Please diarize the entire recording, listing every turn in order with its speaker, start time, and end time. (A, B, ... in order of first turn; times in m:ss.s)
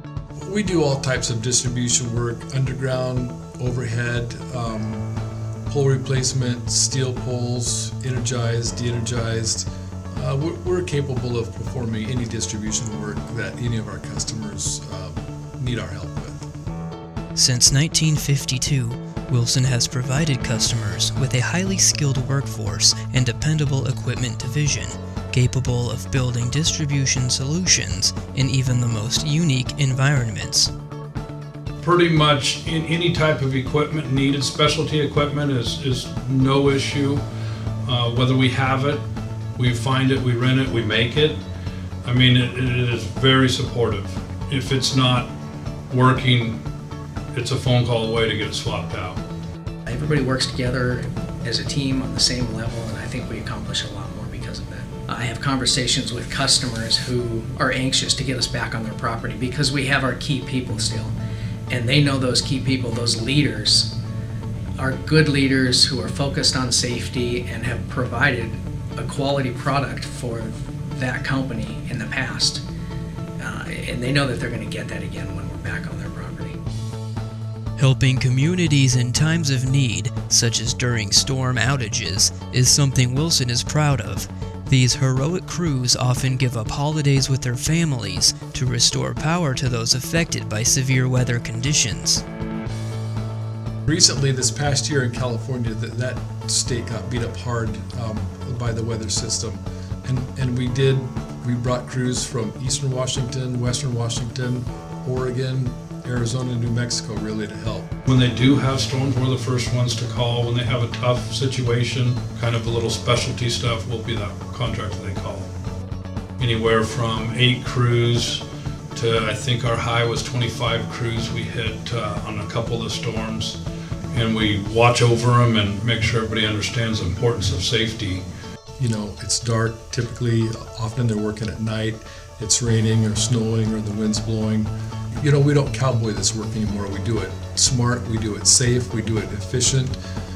0:00.4-0:05.1 A
0:05.7-0:16.5 A
0:17.3-0:30.7 B
0:31.8-0:37.2 C
0:37.8-0:39.0 C
0:39.6-0:41.4 C
0:42.0-0:45.3 C
0:45.9-0:46.6 C
0:47.3-0:49.2 C
0:49.8-1:01.2 D
1:01.7-1:03.9 D
1:04.8-1:12.6 D
1:13.4-1:16.6 D
1:17.8-1:32.2 B
1:33.9-1:47.9 A
1:48.1-1:55.5 C
1:56.4-2:03.6 C
2:04.1-2:08.2 C
2:08.8-2:20.0 A